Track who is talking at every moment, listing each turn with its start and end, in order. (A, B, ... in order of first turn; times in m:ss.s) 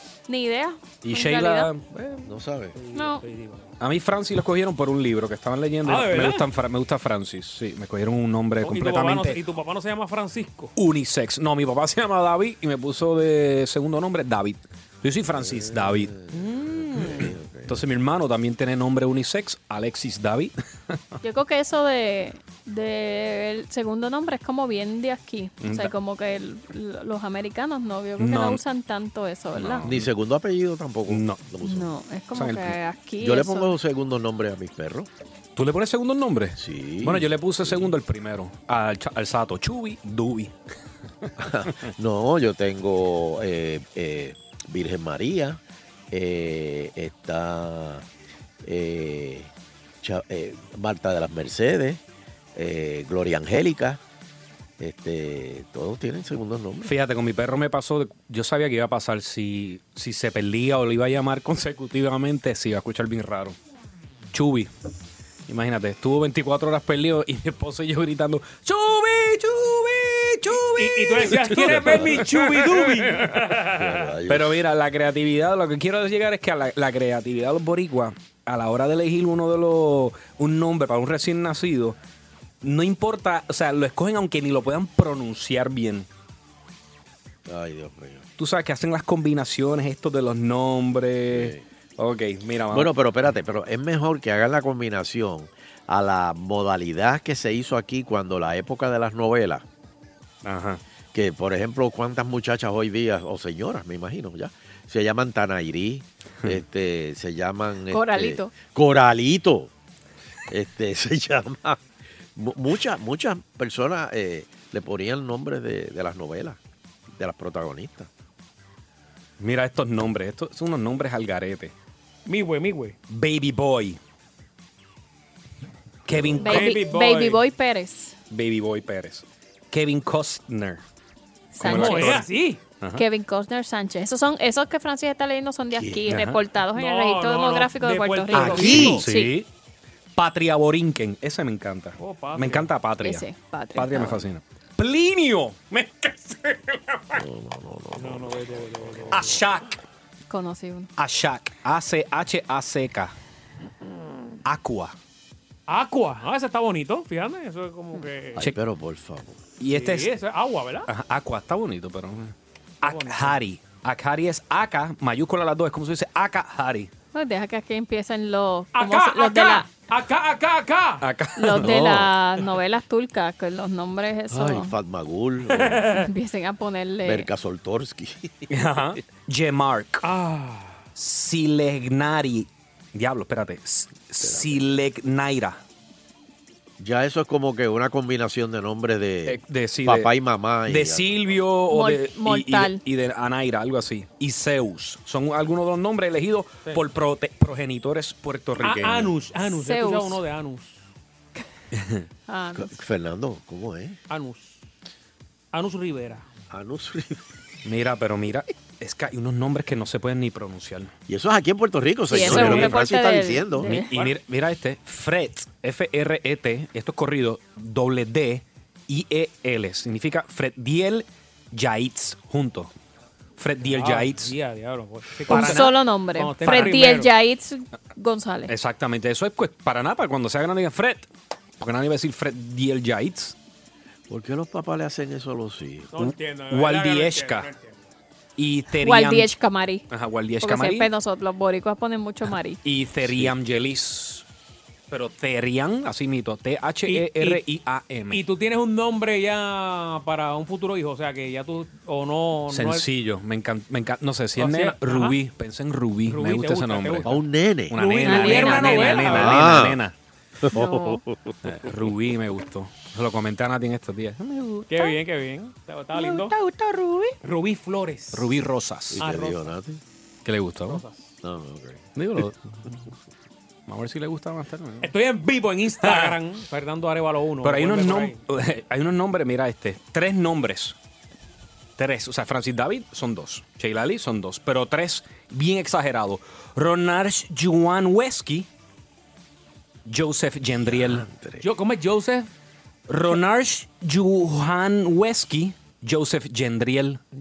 0:00.3-0:01.7 A
0:01.0-0:02.2 B
0:02.2-0:02.8 C
0:02.8-0:03.7 D
0:03.0-0:03.2 A
0:03.8-0:09.4 B
0:05.8-0:06.5 D
0:08.6-0:10.7 D
0:10.8-0:16.1 B
0:15.3-0:17.8 C
0:16.3-0:17.3 D
0:17.7-0:21.0 B
0:21.2-0:29.9 A
0:25.6-0:25.9 B
0:28.2-0:28.6 B
0:29.6-0:30.1 B
0:29.8-0:31.9 C
0:31.1-0:31.4 B
0:31.6-0:33.8 A
0:32.3-0:32.8 B
0:33.2-0:35.1 C
0:35.6-0:40.5 B
0:36.6-0:38.0 C
0:41.4-0:45.6 C
0:46.1-0:48.1 C
0:48.6-0:49.5 C
0:50.0-0:52.0 C
0:52.6-0:54.0 C
0:54.8-0:56.9 C
0:56.8-1:03.6 B
1:04.3-1:04.7 B
1:05.5-1:13.2 B
1:10.6-1:14.1 D
1:13.7-1:14.6 C
1:14.3-1:22.0 B
1:22.6-1:26.1 B
1:27.5-1:28.3 C
1:28.4-1:32.9 B
1:31.3-1:31.6 C
1:32.7-1:39.7 C
1:40.4-1:40.8 B
1:41.1-1:49.7 C
1:47.9-1:48.5 A
1:50.5-1:51.8 C
1:52.4-1:56.6 C
1:57.1-1:58.1 C
1:59.4-2:01.7 B
2:02.3-2:03.0 D
2:03.1-2:04.0 B
2:06.1-2:06.8 B
2:06.1-2:06.6 C
2:06.4-2:08.2 A
2:06.4-2:07.4 D
2:08.3-2:10.8 B
2:11.5-2:12.2 A
2:11.6-2:12.3 B
2:11.6-2:12.6 D
2:13.0-2:19.3 A
2:15.8-2:16.1 C
2:16.1-2:16.4 B
2:16.8-2:19.0 D
2:18.3-2:19.0 C
2:18.5-2:19.5 B
2:20.2-2:27.2 B
2:22.0-2:22.7 D
2:23.0-2:24.2 A
2:27.1-2:29.3 C
2:28.0-2:29.4 D
2:29.1-2:29.8 B
2:30.3-2:30.9 A
2:31.0-2:33.2 B
2:34.4-2:35.0 B
2:35.7-2:38.4 D
2:38.4-2:39.4 C
2:39.6-2:40.1 B
2:39.7-2:40.9 D
2:40.9-2:46.9 B
2:42.8-2:43.4 D
2:47.1-2:49.7 A
2:48.7-2:51.0 D
2:51.0-2:52.0 B
2:51.4-2:54.7 A
2:51.6-2:52.0 C
2:54.3-2:55.9 C
2:55.6-2:56.0 D
2:56.0-2:57.3 A
2:57.0-2:58.8 C
2:58.5-3:00.0 B
3:00.0-3:00.8 D
3:01.0-3:05.6 B
3:04.2-3:04.8 C
3:06.8-3:11.3 C
3:09.3-3:10.1 B
3:10.7-3:19.1 B
3:11.7-3:12.8 A
3:18.6-3:20.8 D
3:19.4-3:20.2 A
3:21.7-3:22.0 B
3:22.3-3:22.8 A
3:22.6-3:24.0 C
3:24.1-3:24.6 D
3:25.5-3:26.3 D
3:26.5-3:27.2 C
3:27.6-3:30.9 B
3:31.1-3:33.8 C
3:32.1-3:33.9 A
3:32.1-3:32.8 B
3:33.6-3:42.7 B
3:43.4-3:44.3 B
3:43.6-3:47.1 D
3:45.3-3:45.8 B
3:45.3-3:48.5 A
3:46.4-3:47.0 B
3:48.5-3:53.4 B
3:54.1-3:55.9 C
3:55.9-3:57.8 D
3:56.0-3:57.5 B
3:58.4-3:59.3 B
3:58.8-3:59.9 A
3:59.9-4:00.9 B
4:00.4-4:02.6 A
4:02.6-4:04.3 B
4:03.0-4:03.3 C
4:04.9-4:08.2 B
4:06.9-4:07.4 D
4:08.1-4:12.9 D
4:12.5-4:17.1 B
4:14.4-4:15.2 D
4:16.1-4:17.1 D
4:17.0-4:17.8 C
4:17.7-4:19.9 B
4:17.8-4:19.5 D
4:18.0-4:19.2 A
4:19.0-4:19.8 C
4:20.4-4:21.0 C
4:20.6-4:21.0 A
4:21.4-4:24.9 B
4:24.7-4:26.3 D
4:27.2-4:28.3 D
4:28.1-4:29.0 B
4:28.9-4:29.8 C
4:29.0-4:29.5 D
4:30.2-4:30.8 B
4:30.7-4:31.1 D
4:31.2-4:31.9 C
4:32.0-4:32.4 B
4:33.7-4:34.9 B
4:34.8-4:38.2 D
4:35.8-4:36.2 B
4:37.4-4:40.8 B
4:41.8-4:48.5 B
4:49.9-4:51.1 B
4:50.6-4:51.5 C
4:51.4-4:52.3 D
4:52.9-4:57.0 B